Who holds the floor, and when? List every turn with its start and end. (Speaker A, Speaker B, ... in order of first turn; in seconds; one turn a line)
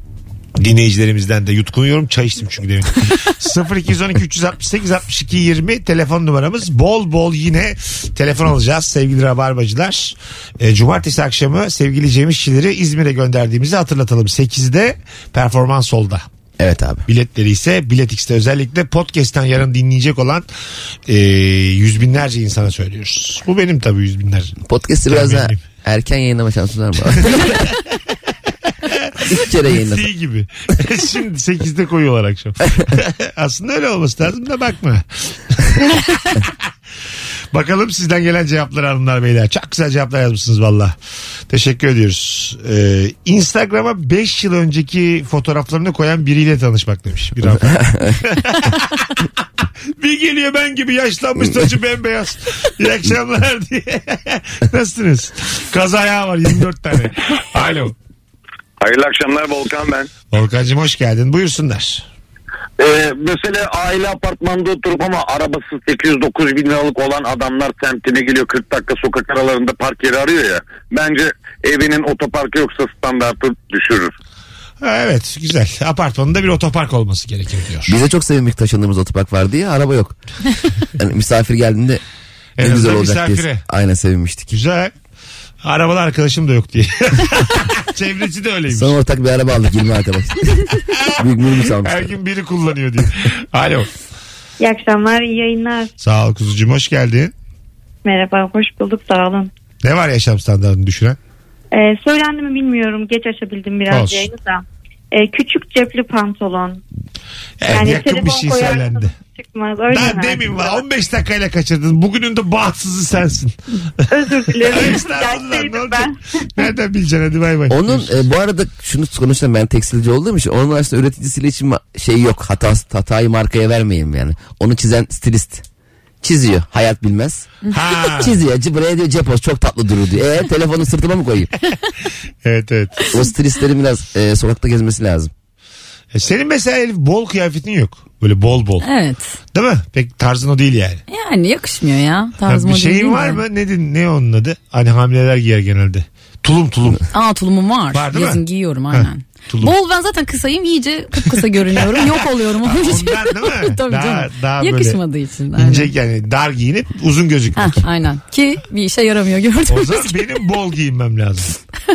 Speaker A: 0.6-16.2
Speaker B: 16.6-17.1
Speaker A: 17.1-20.5
Speaker A: 21.1-25.6
Speaker B: 24.6-27.7
Speaker A: 27.2-27.6
Speaker A: 28.9-36.5
Speaker B: 29.3-30.1
Speaker A: 37.5-41.0
Speaker A: 41.5-49.2
Speaker B: 47.6-48.2
Speaker A: 50.0-58.0
Speaker C: 58.8-60.1
Speaker A: 60.3-62.0
Speaker C: 62.8-74.1
Speaker A: 74.8-78.0
Speaker B: 77.9-80.2
Speaker B: 81.0-82.0
Speaker A: 82.6-83.6
Speaker B: 82.6-84.5
Speaker A: 84.5-84.9
Speaker A: 85.6-89.0
Speaker B: 88.7-92.1
Speaker A: 90.9-91.2
Speaker A: 91.8-93.9
Speaker D: 94.6-95.9
Speaker A: 96.0-97.3
Speaker D: 98.0-99.5
Speaker A: 99.8-101.2
Speaker D: 101.7-106.8
Speaker A: 103.9-104.3
Speaker A: 107.6-109.1
Speaker D: 107.7-110.8
Speaker A: 109.9-118.2
Speaker D: 114.1-116.1
Speaker B: 117.7-125.6
Speaker B: 126.2-127.5
Speaker A: 127.7-128.4
Speaker B: 128.0-131.5
Speaker A: 132.4-133.1
Speaker B: 133.1-135.3
Speaker A: 136.1-138.9
Speaker E: 138.8-139.4
Speaker A: 139.5-141.0
Speaker E: 141.1-143.4
Speaker A: 142.5-147.1
Speaker E: 147.1-155.9
Speaker A: 147.9-148.4
Speaker A: 148.9-149.7
Speaker A: 151.8-155.0
Speaker A: 155.6-157.8
Speaker E: 157.6-160.1
Speaker A: 159.7-161.6